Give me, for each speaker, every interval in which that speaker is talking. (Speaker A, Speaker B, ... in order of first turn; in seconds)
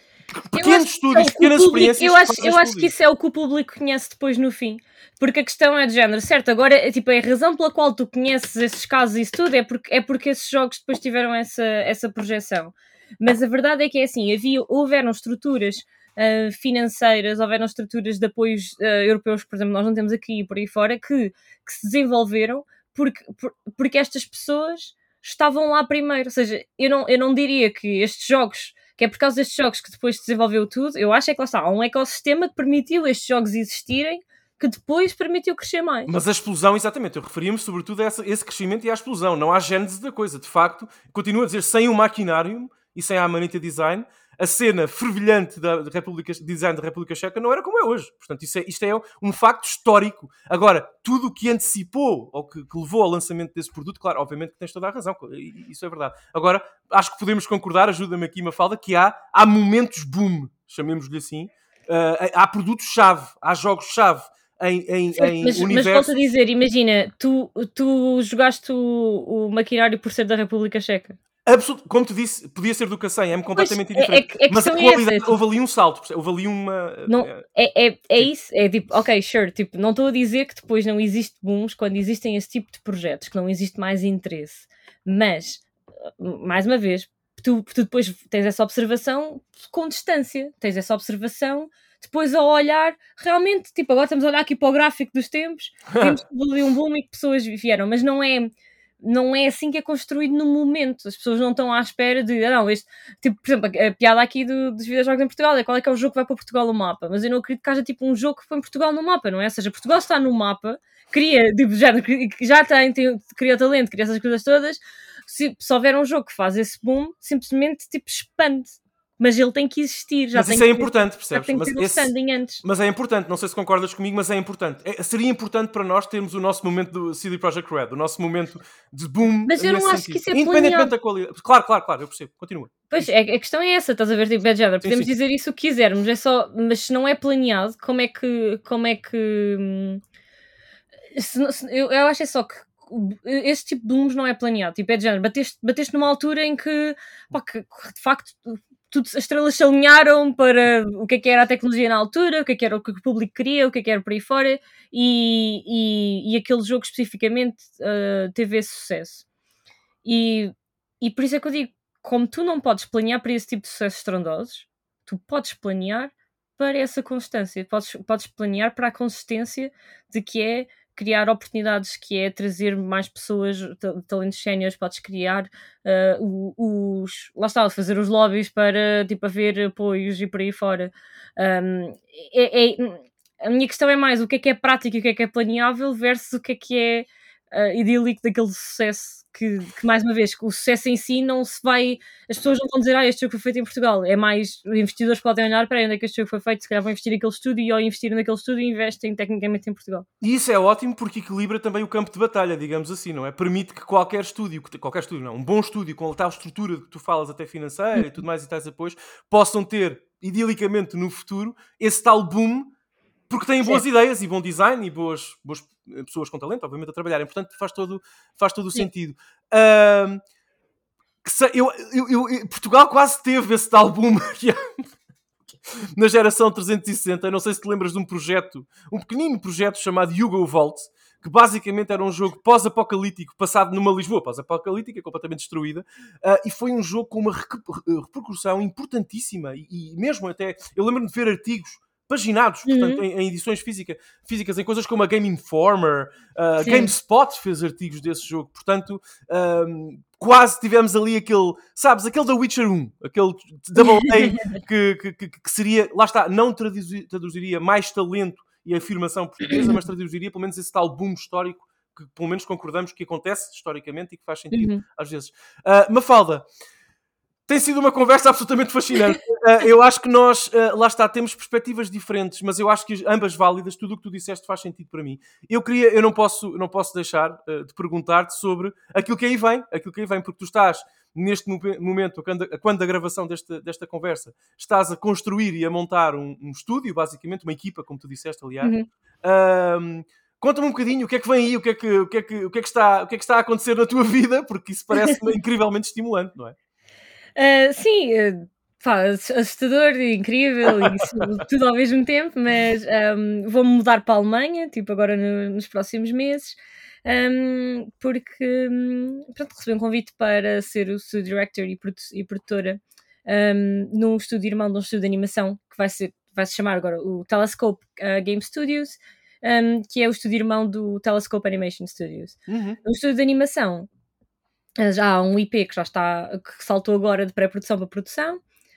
Speaker A: 0.3-2.9, 36.1-66.2, 71.5-77.4, 95.9-96.2, 120.3-133.1, 134.8-135.1, 200.2-212.7, 213.3-220.2, 221.2-224.9, 225.7-266.5, 267.5-288.7, 289.2-296.6, 300.8-301.2, 322.5-322.8
Speaker B: 0.5-36.1, 65.2-71.2, 73.5-75.3, 77.1-122.6, 129.5-130.9, 132.9-140.0, 141.1-159.2, 160.1-200.1, 242.7-243.0, 246.6-246.9, 253.8-254.6, 259.5-259.8, 264.5-264.8, 288.6-288.9, 297.4-323.9, 324.8-328.4